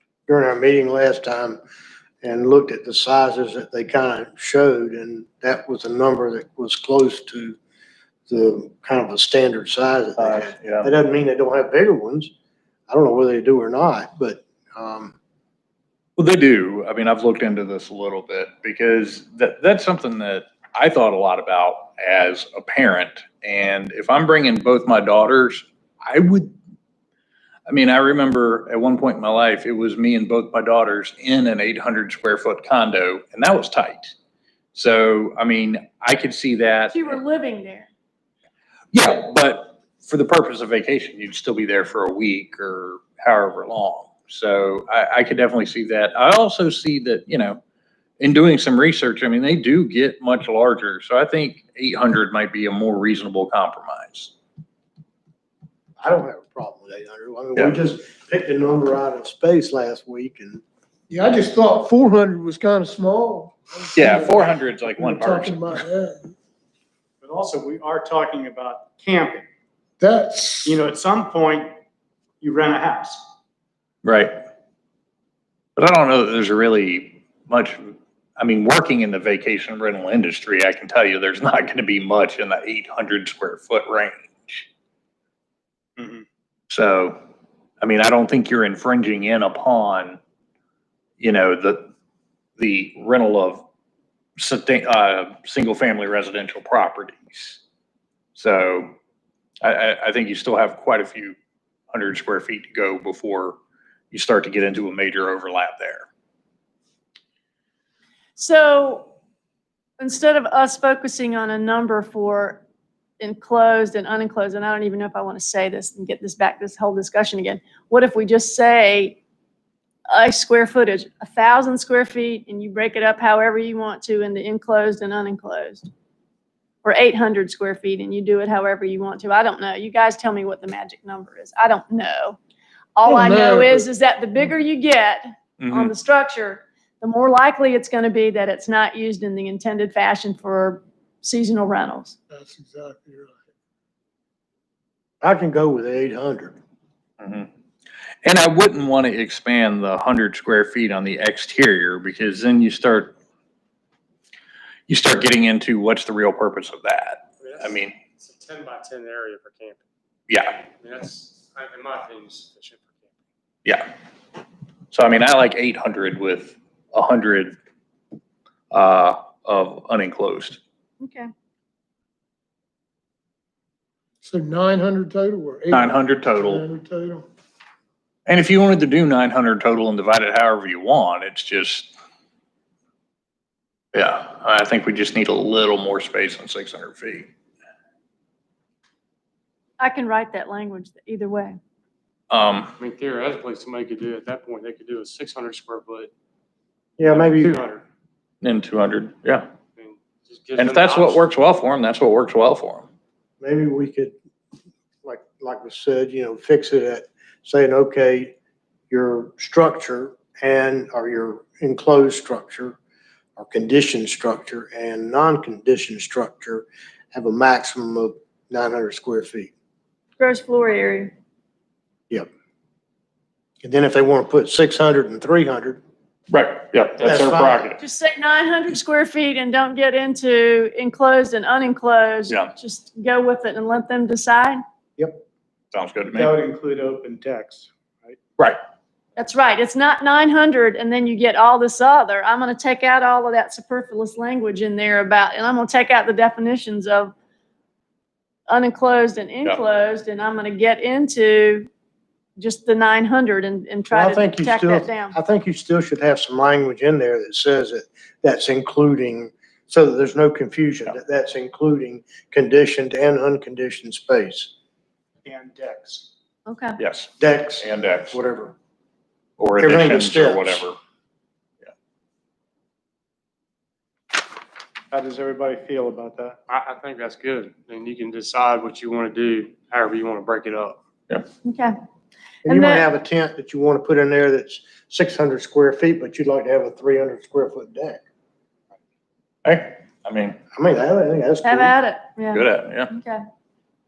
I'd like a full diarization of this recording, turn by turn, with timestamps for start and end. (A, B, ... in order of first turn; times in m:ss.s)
0:00.3-0:01.6 A
0:02.2-0:07.6 A
0:08.3-0:12.3 A
0:10.2-0:10.9 B
0:12.9-0:15.1 A
0:16.2-0:26.5 B
0:27.7-0:34.1 B
0:34.7-0:37.2 B
0:36.9-0:37.9 C
0:38.9-0:47.6 B
0:48.2-0:54.3 B
0:56.0-1:00.6 A
1:01.1-1:06.3 D
1:04.0-1:05.8 B
1:07.2-1:09.4 E
1:10.0-1:10.8 D
1:10.6-1:11.7 E
1:12.4-1:13.2 E
1:14.0-1:14.4 B
1:15.8-1:24.7 B
1:26.0-1:26.2 E
1:26.7-1:27.2 B
1:27.8-1:30.2 B
1:31.2-1:31.9 B
1:32.6-1:33.6 B
1:34.4-1:37.6 B
1:38.4-1:38.9 B
1:39.6-1:41.4 B
1:41.9-1:43.6 B
1:44.1-1:46.1 B
1:48.4-1:49.1 C
1:50.0-1:52.6 C
1:53.2-1:59.2 C
2:00.1-2:05.9 C
2:06.8-2:12.4 C
2:12.9-2:22.2 C
2:13.0-2:13.9 D
2:15.6-2:15.9 B
2:22.3-2:23.4 D
2:25.2-2:26.5 A
2:27.2-2:27.5 B
2:28.2-2:33.1 B
2:34.9-2:38.0 B
2:37.4-2:39.8 F
2:40.3-2:40.6 B
2:40.8-2:43.1 F
2:43.6-2:43.9 B
2:44.9-2:47.5 B
2:48.7-2:50.6 B
2:51.0-2:51.3 C
2:54.2-2:57.3 D
2:55.7-2:56.6 B
2:58.3-3:01.9 B
3:03.9-3:07.3 B
3:09.8-3:11.6 C
3:12.3-3:12.7 B
3:12.8-3:16.1 F
3:17.0-3:17.6 A
3:17.1-3:17.8 E
3:18.4-3:19.5 B
3:19.8-3:21.2 F
3:20.6-3:22.9 B
3:23.4-3:24.1 A
3:25.0-3:28.3 A
3:28.9-3:32.8 A
3:33.4-3:39.5 A
3:40.2-3:41.1 C
3:43.6-3:45.8 A
3:46.3-3:47.8 B
3:47.0-3:47.7 A
3:47.8-3:54.6 C
3:55.7-3:56.3 B
3:56.1-3:58.2 E
3:59.2-4:07.1 C
4:08.5-4:11.7 C
4:12.4-4:15.1 C
4:13.9-4:24.5 A
4:25.2-4:26.1 E
4:26.5-4:26.8 C
4:26.8-4:28.2 B
4:27.2-4:28.5 A
4:29.4-4:30.8 B
4:29.6-4:30.6 A
4:34.9-4:36.4 E
4:36.5-4:40.8 F
4:41.4-4:41.7 C
4:42.4-4:42.8 C
4:42.4-4:48.0 A
4:49.4-4:50.4 B
4:50.5-4:51.7 A
4:51.4-4:53.2 C
4:52.3-4:52.9 B